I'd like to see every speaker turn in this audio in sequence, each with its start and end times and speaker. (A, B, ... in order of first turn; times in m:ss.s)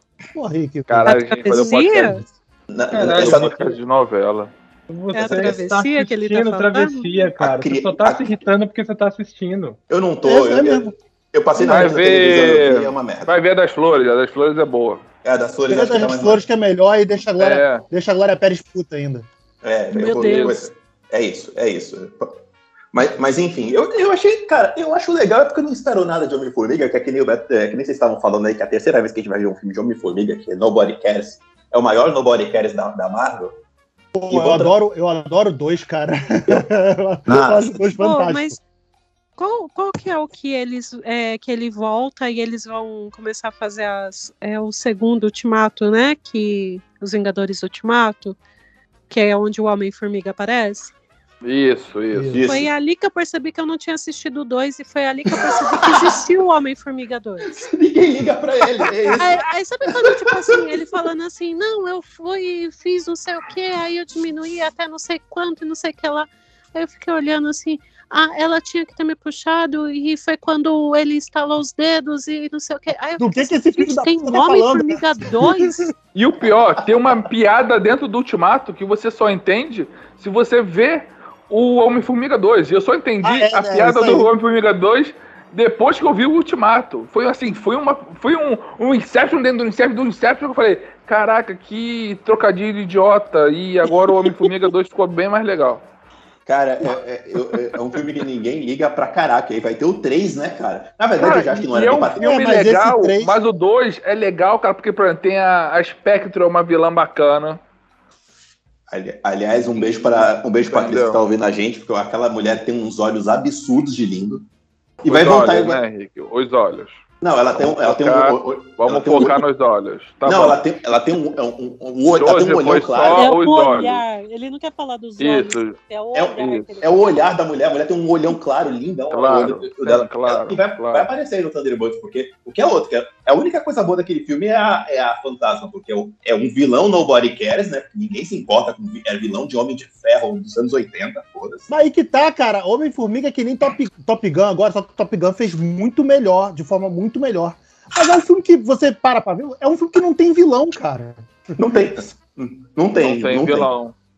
0:00.3-0:01.7 A
0:00.9-0:02.2 B
0:01.0-0:02.2 C
0:02.7-0:03.7 D
0:02.9-0:03.6 E
0:03.1-0:04.5 B
0:04.9-0:09.8 E
0:05.1-0:07.1 C
0:07.4-0:08.4 D
0:09.9-0:13.3 D
0:10.2-0:10.9 A
0:11.6-0:15.0 B
0:15.2-0:16.4 D
0:15.7-0:19.3 A
0:17.4-0:17.8 B
0:19.6-0:22.4 D
0:19.9-0:20.6 C
0:20.1-0:20.7 B
0:22.9-0:33.6 D
0:34.1-0:38.6 A
0:34.3-0:34.7 D
0:37.3-0:37.8 D
0:38.0-0:38.6 C
0:39.4-0:48.4 C
0:49.1-0:50.9 C
0:51.4-0:52.4 B
0:52.1-0:52.4 A
0:52.3-0:52.7 D
0:52.4-0:57.6 C
0:55.4-0:56.2 D
0:57.4-1:00.9 D
0:59.2-1:15.9 C
1:13.2-1:15.9 A
1:16.1-1:35.8 B
1:23.2-1:24.3 A
1:36.4-1:42.3 D
1:41.2-1:47.6 B
1:42.2-1:43.4 A
1:48.9-1:54.4 D
1:50.7-1:51.2 B
1:55.0-1:55.8 D
1:55.1-1:57.0 B
1:57.2-1:59.4 D
1:57.5-2:00.6 B
2:00.2-2:03.3 D
2:02.2-2:04.0 B
2:03.2-2:07.0 C
2:05.2-2:05.8 B
2:06.1-2:21.7 D
2:06.4-2:06.8 B
2:09.1-2:11.1 B
2:21.7-2:31.2 A
2:31.6-2:33.7 D
2:33.0-2:33.9 B